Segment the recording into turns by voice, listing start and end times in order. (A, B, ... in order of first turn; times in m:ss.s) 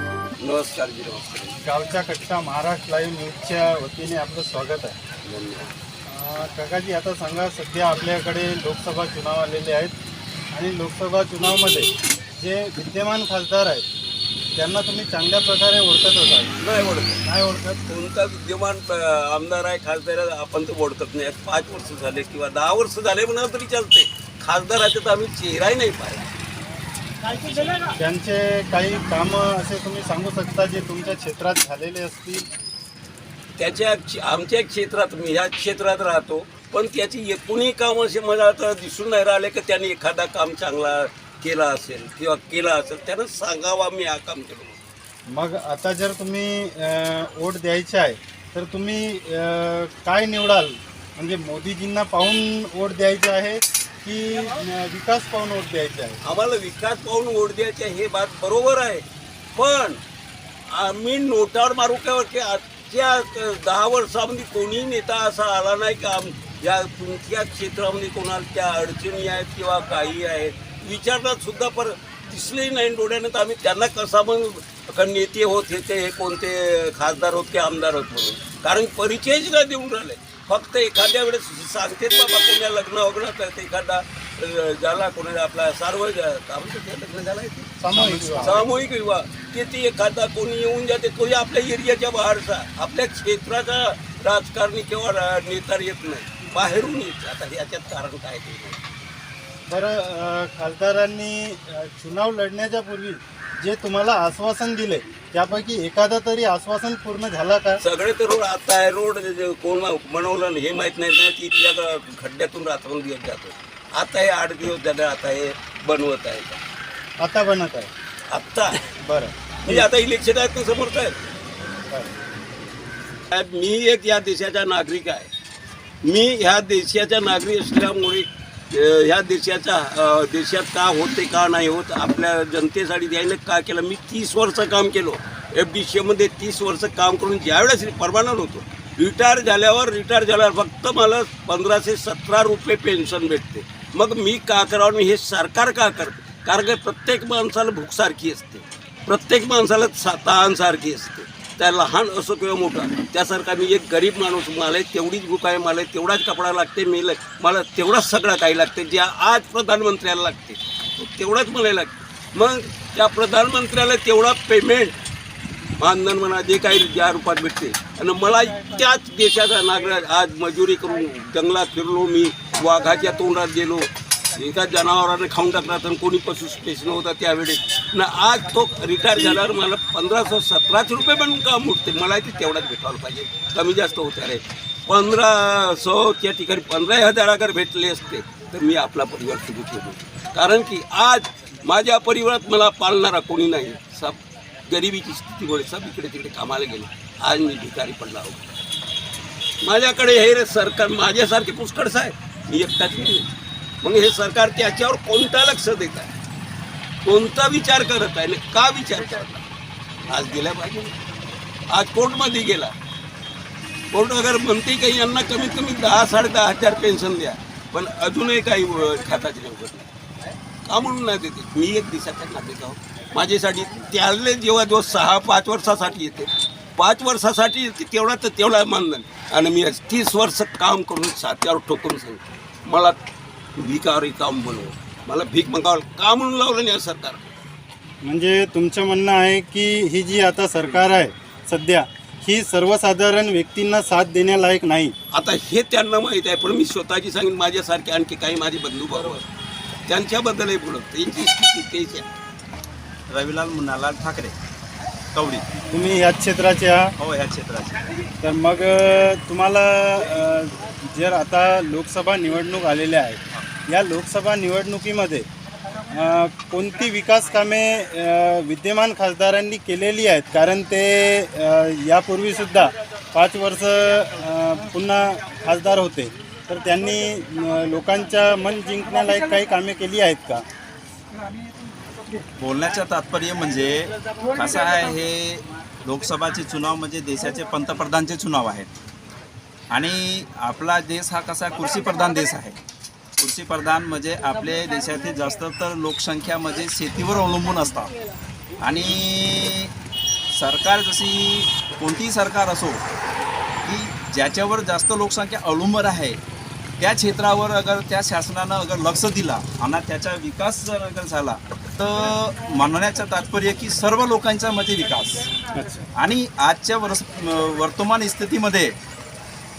0:00.4-0:01.6 A
0:01.6-0:05.0 B
0:05.2-0:05.7 A
0:06.1-0:10.0 B
0:10.5-0:13.9 B
0:14.6-0:16.6 B
0:16.6-0:17.2 A
0:17.2-0:17.8 B
0:17.9-0:26.3 A
0:27.3-0:27.9 A
0:27.9-0:32.5 B
0:33.6-0:44.8 A
0:45.3-0:56.2 B
0:56.2-1:00.0 A
1:00.7-1:38.9 A
1:27.8-1:28.7 B
1:28.0-1:28.6 C
1:39.7-1:47.8 B
1:47.8-1:56.6 A
1:57.2-1:57.9 B
1:58.3-1:58.8 A
1:59.0-1:59.9 B
1:59.6-2:01.2 A
2:03.3-2:05.3 A
2:06.0-2:45.0 A
2:45.8-3:18.5 A
3:19.6-3:23.3 A
3:23.8-3:26.1 A
3:27.0-3:29.4 A
3:30.0-3:31.0 A
3:31.7-3:32.7 A
3:33.9-3:39.9 A
3:40.6-3:53.0 A
3:53.6-3:57.3 A
3:58.0-4:05.0 B
4:05.1-4:09.3 A
4:08.9-4:09.2 C
4:09.9-4:12.1 A
4:13.1-4:14.4 C
4:15.1-4:15.5 C
4:15.7-4:17.0 B
4:17.0-4:17.8 C
4:18.2-4:25.3 B
4:25.9-4:40.5 B
4:42.4-4:48.7 C
4:49.7-4:52.6 C
4:53.2-4:57.9 C
4:58.6-4:59.7 C
5:00.3-5:02.8 C
5:03.6-5:06.2 C
5:06.8-5:15.3 C
5:15.5-5:15.8 B
5:16.0-5:18.8 C